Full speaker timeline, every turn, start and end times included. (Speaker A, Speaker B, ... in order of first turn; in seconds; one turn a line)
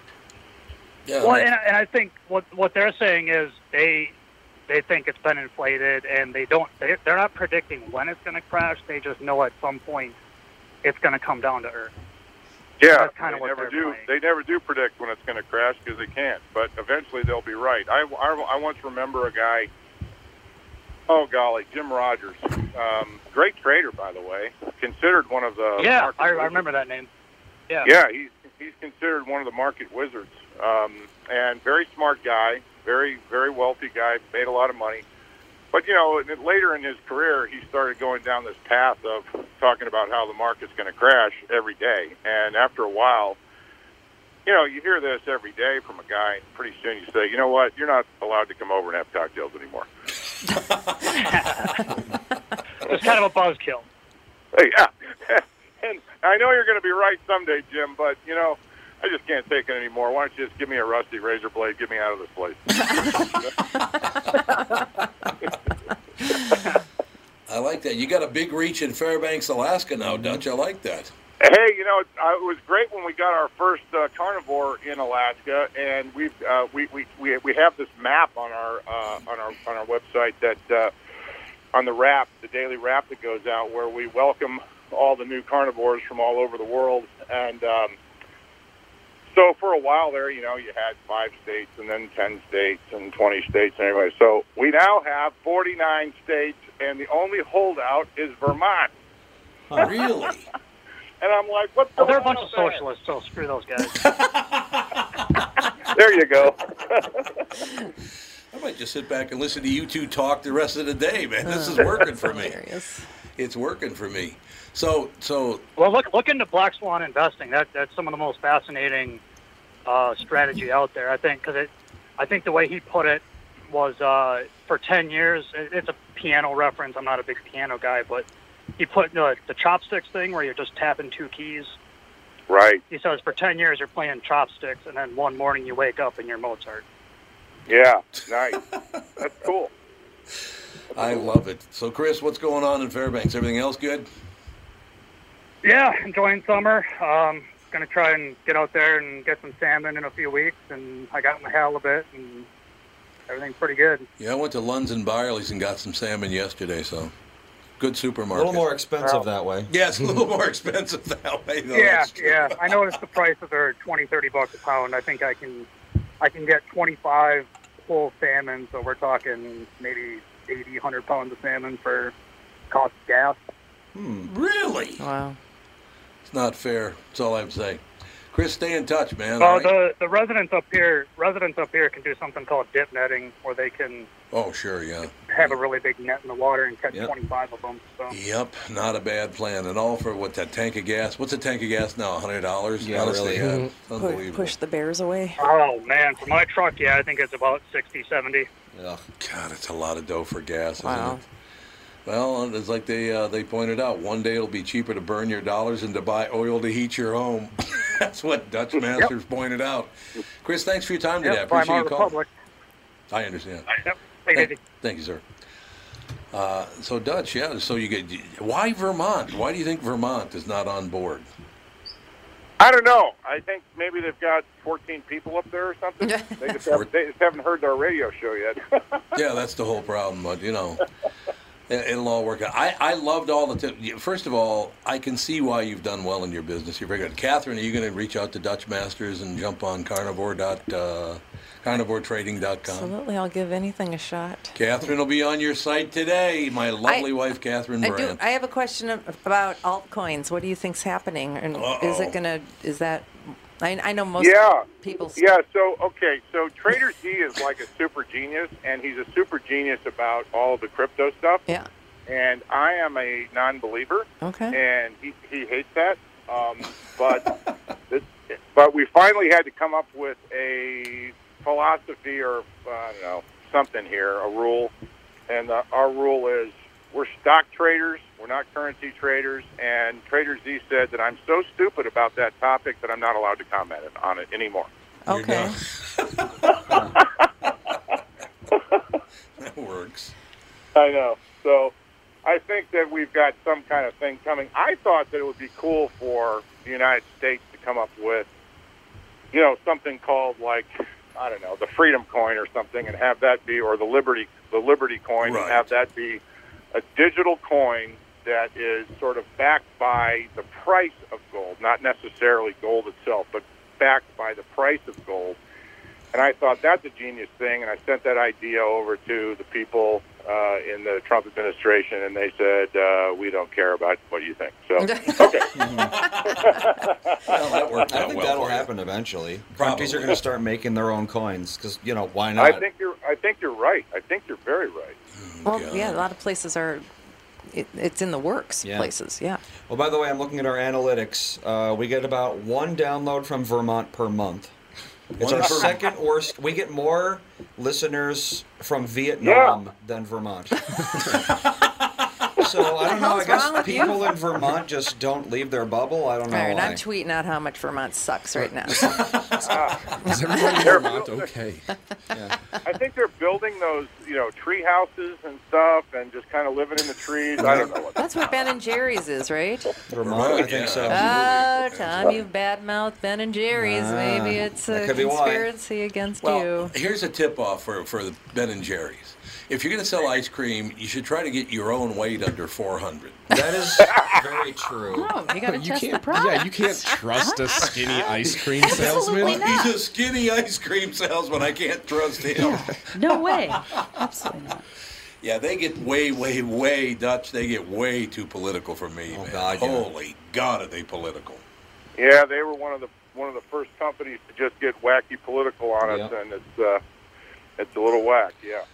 Speaker A: 1.1-1.5
Speaker B: 1.2-4.1
Speaker B: 4.7-10.2
Speaker B: 10.8-11.9
Speaker C: 12.8-19.7
Speaker B: 12.9-14.1
Speaker C: 21.1-26.6
Speaker B: 25.8-27.1
Speaker C: 27.8-35.0
Speaker C: 35.7-43.4
Speaker C: 44.5-49.9
Speaker B: 51.2-51.8
Speaker B: 52.9-53.9
Speaker C: 54.5-63.1
Speaker A: 67.5-71.1
Speaker D: 70.1-70.4
Speaker C: 71.4-80.9
Speaker C: 81.7-88.0
Speaker C: 89.3-98.9
Speaker A: 99.8-100.5
Speaker C: 101.2-102.8
Speaker B: 102.0-104.0
Speaker A: 104.0-105.0
Speaker C: 105.9-107.4
Speaker A: 108.5-112.6
Speaker E: 111.5-113.0
Speaker A: 113.4-115.6
Speaker B: 115.8-119.2
Speaker B: 119.9-128.3
Speaker B: 128.8-131.7
Speaker C: 132.5-132.8
Speaker B: 132.9-136.8
Speaker C: 137.7-138.6
Speaker C: 139.2-139.7
Speaker A: 140.9-144.1
Speaker C: 140.9-141.2
Speaker B: 145.6-152.5
Speaker B: 153.3-154.1
Speaker A: 154.2-157.1
Speaker A: 157.8-158.7
Speaker D: 158.3-159.7
Speaker A: 159.7-162.8
Speaker B: 161.7-165.7
Speaker B: 166.2-172.1
Speaker B: 172.7-173.4
Speaker D: 173.9-174.3
Speaker A: 174.3-175.0
Speaker E: 175.0-175.4
Speaker A: 176.3-179.7
Speaker B: 179.4-184.1
Speaker A: 184.3-185.6
Speaker B: 185.3-188.1
Speaker A: 188.1-194.5
Speaker D: 192.8-193.7
Speaker F: 193.4-193.7
Speaker E: 193.9-195.4
Speaker B: 195.4-198.5
Speaker D: 198.8-199.0
Speaker A: 199.2-201.2
Speaker E: 200.8-201.2
Speaker A: 202.1-209.9
Speaker A: 210.4-212.2
Speaker B: 211.2-212.3
Speaker A: 213.1-215.2
Speaker B: 213.8-214.6
Speaker A: 216.3-221.3
Speaker C: 222.6-229.0
Speaker E: 226.0-226.4
Speaker A: 229.2-230.8
Speaker A: 231.7-242.9
Speaker E: 242.7-244.5
Speaker A: 244.6-248.2
Speaker E: 247.8-255.2
Speaker A: 251.5-252.2
Speaker C: 254.2-254.7
Speaker C: 255.2-261.4
Speaker C: 262.1-267.3
Speaker E: 264.2-264.6
Speaker C: 267.9-274.7
Speaker C: 275.3-284.7
Speaker E: 285.1-285.6
Speaker A: 285.1-286.3
Speaker C: 286.4-287.1
Speaker D: 286.7-287.0
Speaker A: 289.4-290.1
Speaker C: 290.8-291.7
Speaker C: 292.2-298.3
Speaker C: 299.3-306.2
Speaker A: 305.2-305.7
Speaker C: 306.7-315.4
Speaker C: 316.1-325.5
Speaker E: 324.8-325.3
Speaker D: 325.6-325.9
Speaker A: 325.7-326.6
Speaker C: 326.3-327.3
Speaker A: 327.3-328.7
Speaker D: 327.9-332.6
Speaker A: 329.6-330.2
Speaker C: 332.4-335.0
Speaker A: 335.2-336.1
Speaker E: 335.5-336.9
Speaker E: 337.5-339.4
Speaker D: 338.6-338.9
Speaker D: 339.7-344.6
Speaker D: 345.2-350.6
Speaker A: 345.2-345.8
Speaker C: 349.2-349.6
Speaker D: 352.4-356.8
Speaker E: 352.8-354.2
Speaker E: 356.3-359.0
Speaker C: 359.4-359.8
Speaker F: 360.0-361.7
Speaker E: 360.1-360.8
Speaker C: 360.6-361.3
Speaker C: 362.6-368.0
Speaker D: 367.4-367.7
Speaker E: 368.0-369.8
Speaker D: 369.9-371.4
Speaker A: 370.0-372.2
Speaker E: 370.9-376.7
Speaker D: 373.5-375.5
Speaker A: 376.2-383.3
Speaker D: 383.3-385.2
Speaker G: 384.9-386.5
Speaker E: 385.3-386.9
Speaker F: 385.3-389.5
Speaker G: 387.2-389.8
Speaker A: 388.7-393.9
Speaker G: 392.4-394.6
Speaker F: 392.4-392.8
Speaker A: 395.2-401.4
Speaker D: 399.1-399.9
Speaker C: 402.0-406.8
Speaker D: 405.8-406.1
Speaker C: 407.6-408.6